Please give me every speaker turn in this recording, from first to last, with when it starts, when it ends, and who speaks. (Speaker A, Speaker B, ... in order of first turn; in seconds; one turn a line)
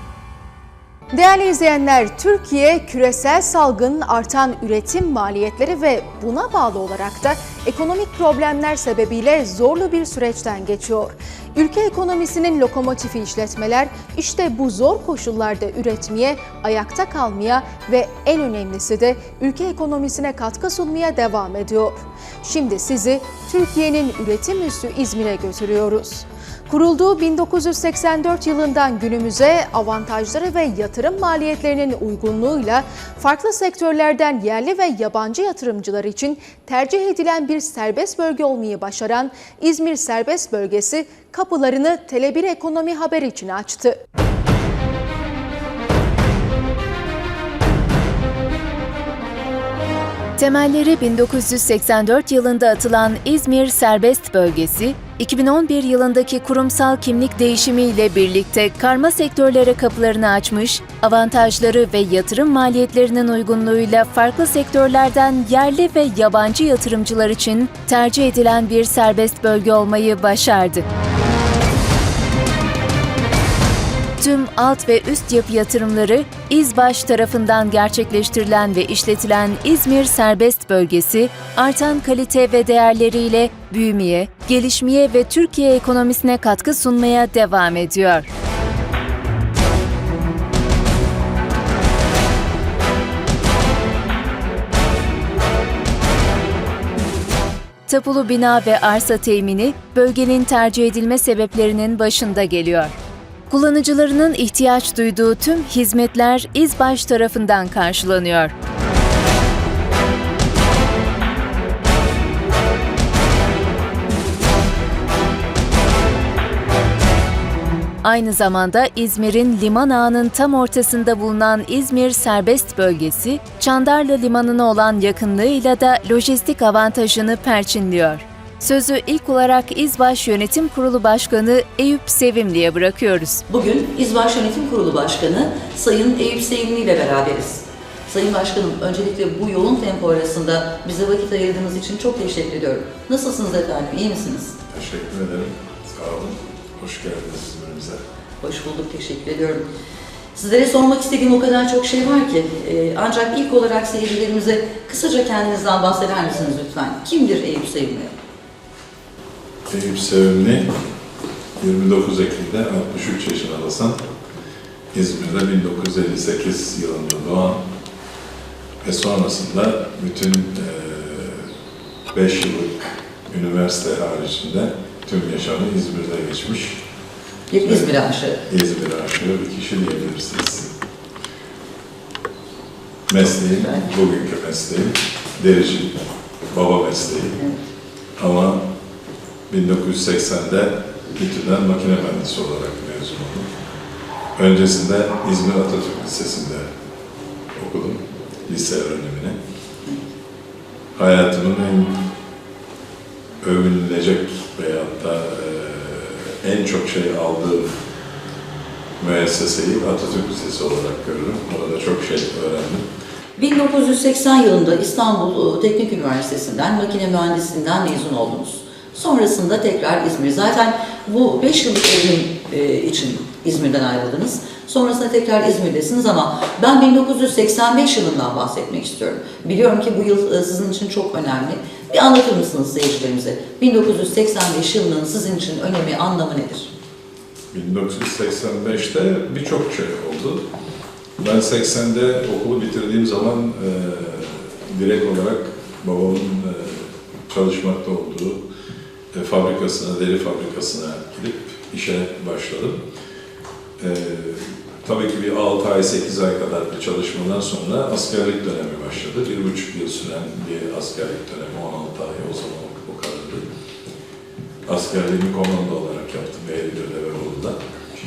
Speaker A: 1.1-44.0
Speaker B: 50.4-70.8
Speaker B: 74.2-88.3
Speaker B: 97.9-103.0
Speaker B: 103.5-108.5
Speaker B: 118.0-133.4
Speaker C: 133.5-144.6
Speaker D: 144.7-148.0
Speaker C: 148.4-149.6
Speaker C: 150.3-158.1
Speaker D: 159.7-160.6
Speaker D: 161.6-164.0
Speaker D: 164.9-167.6
Speaker D: 168.8-171.4
Speaker D: 172.1-176.8
Speaker C: 177.5-178.4
Speaker D: 177.6-177.9
Speaker D: 178.5-180.7
Speaker D: 183.1-185.9
Speaker C: 183.2-183.9
Speaker D: 186.5-187.4
Speaker D: 188.2-188.6
Speaker D: 189.5-193.5
Speaker D: 194.3-196.6
Speaker D: 197.5-199.4
Speaker D: 200.9-201.9
Speaker D: 203.4-207.7
Speaker D: 209.0-212.8
Speaker C: 213.3-236.7
Speaker D: 237.5-240.4
Speaker D: 241.2-248.4
Speaker D: 249.1-252.8
Speaker D: 253.8-263.4
Speaker D: 264.6-267.6